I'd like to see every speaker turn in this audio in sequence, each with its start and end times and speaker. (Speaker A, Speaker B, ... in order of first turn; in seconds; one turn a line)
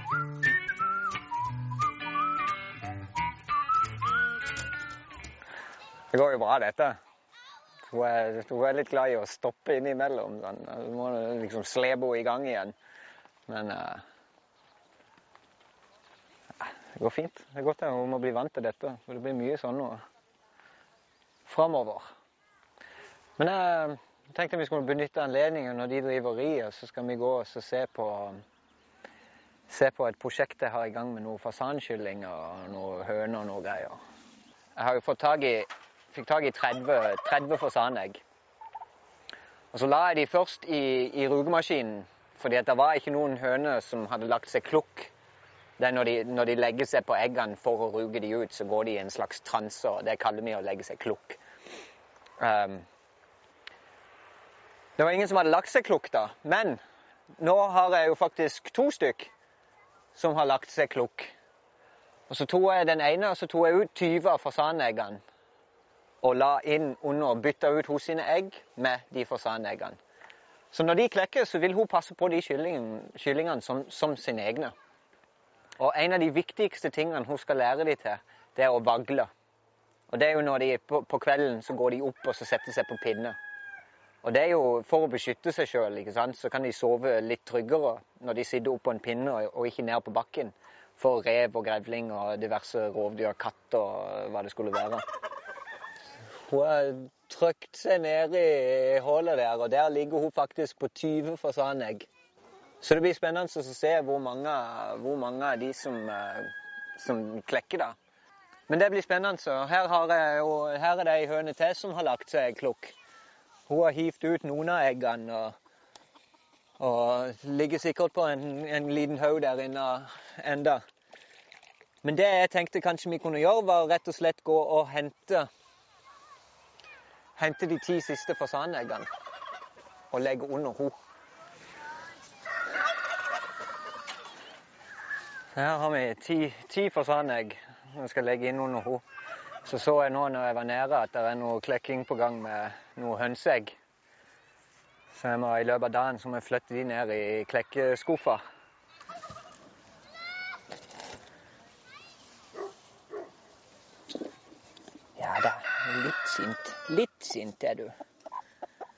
Speaker A: 6.1-7.0
Speaker A: 7.9-12.8
Speaker A: 13.5-14.0
Speaker A: 16.6-20.0
Speaker A: 21.5-22.1
Speaker A: 23.4-28.4
Speaker A: 29.7-34.0
Speaker A: 34.8-38.2
Speaker A: 39.7-45.1
Speaker A: 45.8-51.4
Speaker A: 52.4-52.9
Speaker A: 55.0-56.8
Speaker A: 57.4-59.3
Speaker A: 60.1-61.3
Speaker A: 62.3-65.2
Speaker A: 66.2-70.0
Speaker A: 70.7-74.8
Speaker A: 75.8-79.3
Speaker A: 80.1-83.4
Speaker A: 84.2-95.0
Speaker A: 96.5-102.1
Speaker A: 102.8-108.0
Speaker A: 108.7-113.0
Speaker A: 113.7-115.5
Speaker A: 116.8-120.8
Speaker A: 122.0-125.5
Speaker A: 127.4-129.1
Speaker A: 130.1-130.9
Speaker A: 135.6-139.0
Speaker A: 139.7-143.8
Speaker A: 145.1-148.4
Speaker A: 155.2-157.9